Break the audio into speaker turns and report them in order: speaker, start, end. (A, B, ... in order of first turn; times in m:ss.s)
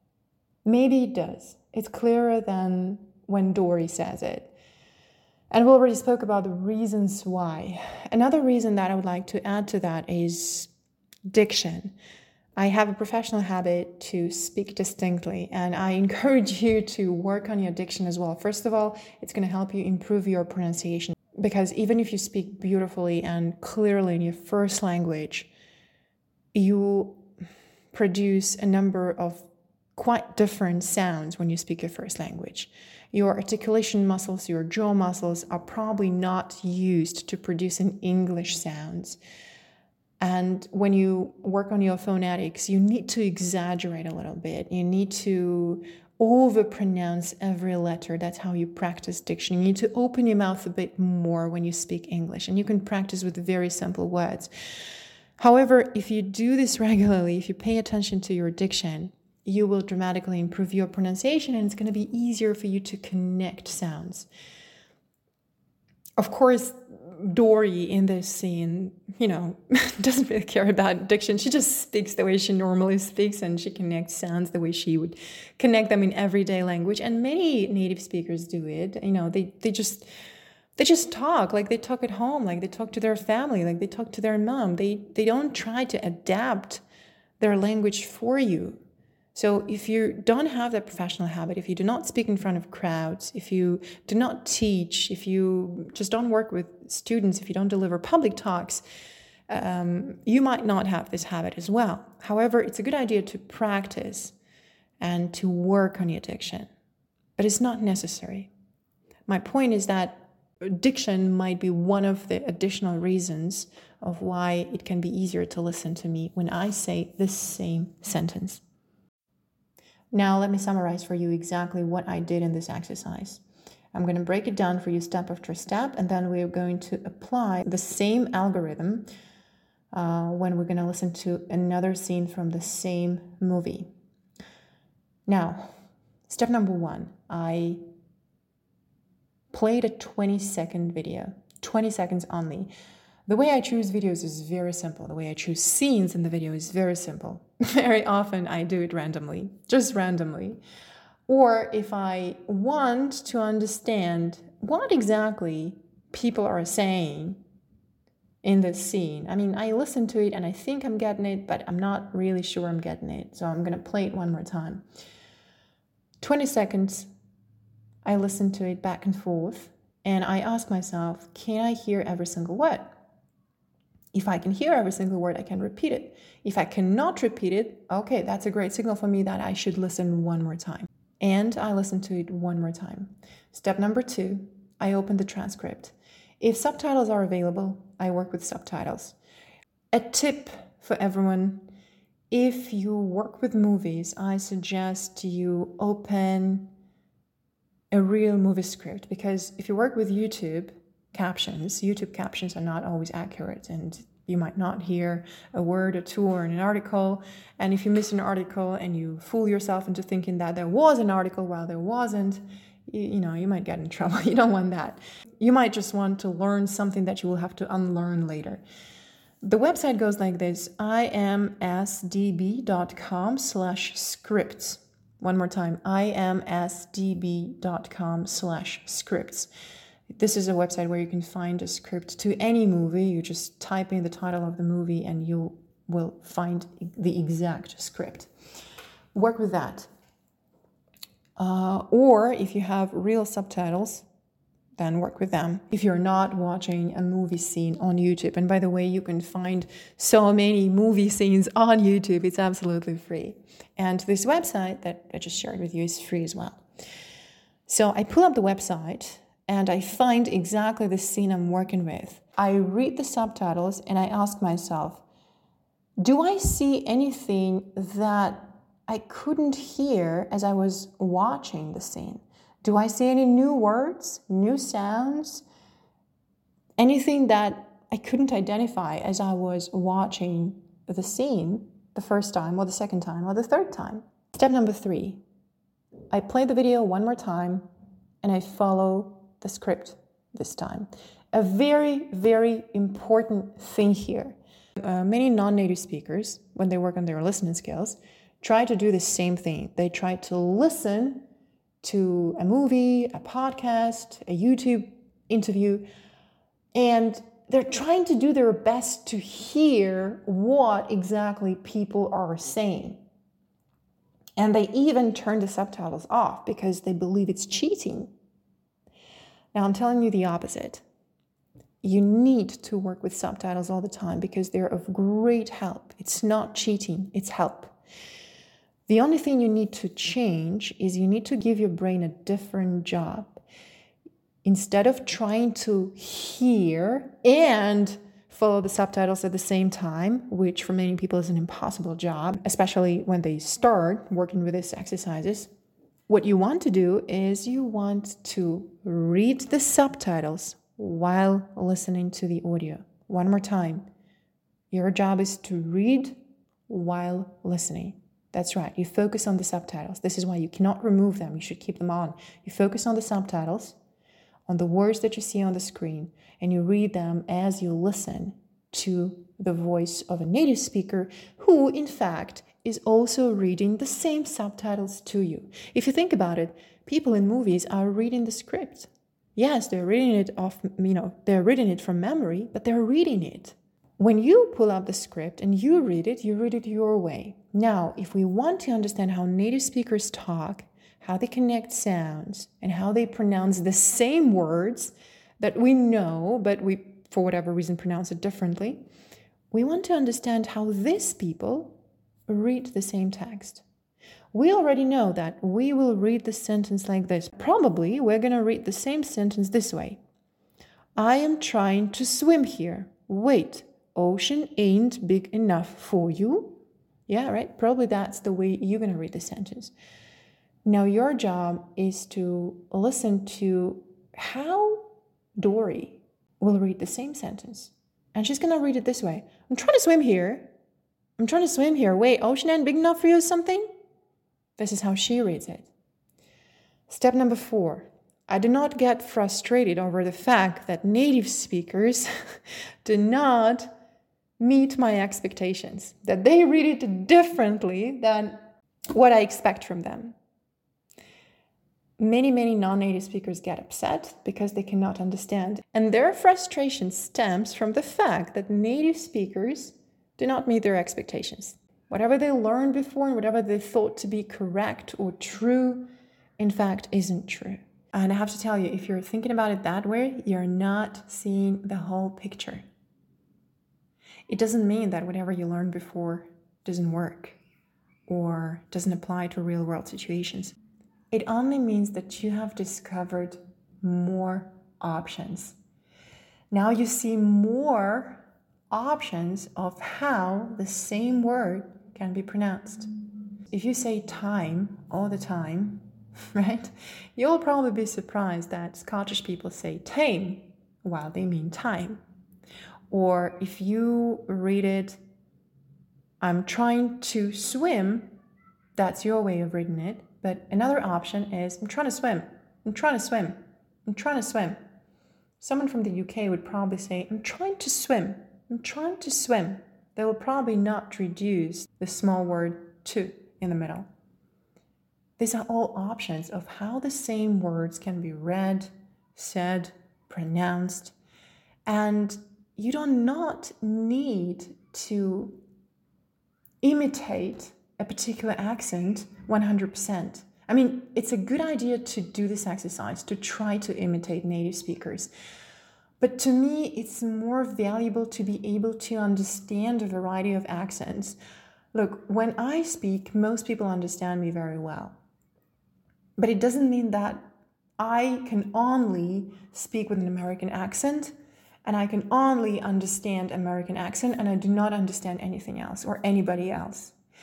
0:00.6-0:04.5 A
0:05.5-0:10.7 A
0:11.3-0:11.9 A
0:12.6-0:25.5 A
0:26.5-0:27.3 A
0:27.9-0:39.2 A
0:40.2-0:54.5 A
0:55.4-1:04.3 A
1:06.2-1:20.1 A
1:20.8-1:26.8 A
1:27.4-1:28.8 A
1:29.3-1:38.8 A
1:39.5-1:44.3 A
1:45.0-1:46.7 A
1:47.4-1:48.5 A
1:49.3-1:58.6 A
2:00.1-2:03.4 A
2:03.9-2:09.1 A
2:09.9-2:13.9 A
2:15.3-2:15.7 A
2:16.3-2:17.8 A
2:19.5-2:22.7 A
2:23.3-2:30.6 A
2:31.3-2:37.4 A
2:38.4-2:44.8 A
2:46.2-2:47.1 A
2:48.0-2:53.0 A
2:54.1-3:09.2 A
3:09.9-3:11.7 A
3:12.3-3:16.7 A
3:17.9-3:38.6 A
3:39.4-3:49.5 A
3:50.1-3:58.3 A
3:59.1-3:59.9 A
4:01.4-4:04.0 A
4:04.8-4:16.6 A
4:17.7-4:25.0 A
4:26.0-4:35.4 A
4:36.8-4:45.2 A
4:46.1-4:47.6 A
4:48.2-5:01.2 A
5:01.8-5:05.9 A
5:06.7-5:13.0 A
5:14.4-5:18.1 A
5:19.5-5:20.8 A
5:21.8-5:27.7 A
5:28.9-5:33.4 A
5:34.4-5:45.5 A
5:46.1-5:53.9 A
5:54.7-6:03.8 A
6:04.5-6:38.8 A
6:39.5-6:43.6 A
6:44.3-6:50.0 A
6:51.0-6:59.7 A
7:00.6-7:10.5 A
7:11.2-7:13.7 A
7:14.6-7:15.7 A
7:16.9-7:22.1 A
7:22.8-7:23.7 A
7:24.4-7:30.2 A
7:32.0-7:52.6 A
7:54.3-7:57.4 A
7:58.1-8:00.5 A
8:01.1-8:05.6 A
8:06.5-8:12.9 A
8:13.5-8:22.0 A
8:22.9-8:25.0 A
8:26.2-8:28.1 A
8:28.8-8:34.6 A
8:35.4-8:43.9 A
8:45.2-8:50.9 A
8:51.7-8:55.4 A
8:56.6-9:05.1 A
9:06.0-9:11.2 A
9:11.7-9:15.0 A
9:16.2-9:21.1 A
9:21.6-9:26.9 A